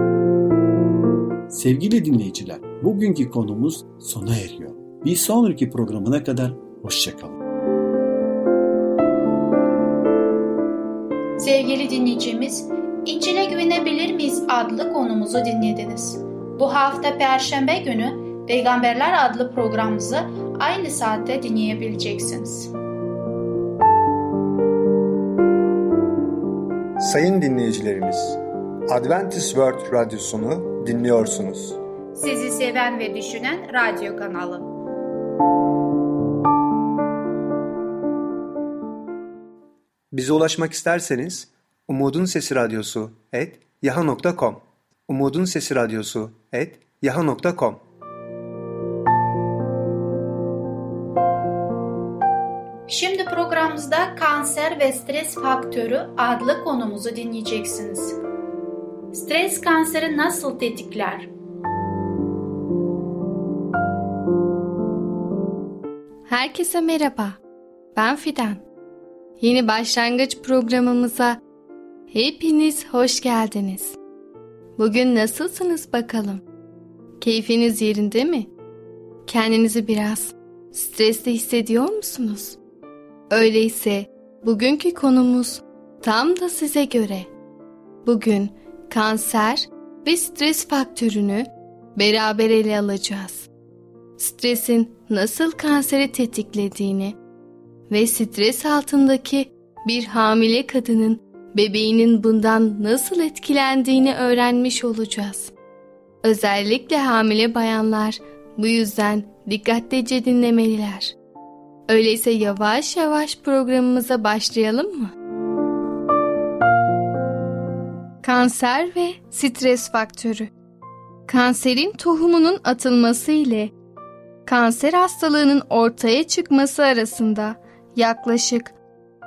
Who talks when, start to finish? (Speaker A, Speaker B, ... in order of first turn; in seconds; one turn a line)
Speaker A: 1.5-7.4
Speaker B: 11.4-22.7
Speaker C: 27.0-31.8
Speaker B: 32.1-34.7
Speaker C: 40.1-47.8
Speaker B: 52.9-58.2
Speaker B: 59.1-61.3
Speaker D: 66.3-67.4
Speaker D: 67.9-68.6
Speaker D: 69.4-71.4
Speaker D: 72.1-74.0
Speaker D: 74.8-76.4
Speaker D: 77.2-78.5
Speaker D: 79.2-82.6
Speaker D: 83.3-87.3
Speaker D: 88.0-93.5
Speaker D: 94.2-97.2
Speaker D: 97.9-105.5
Speaker D: 106.2-111.2
Speaker D: 111.9-115.1
Speaker D: 118.2-120.5
Speaker D: 121.3-123.7
Speaker D: 124.5-128.7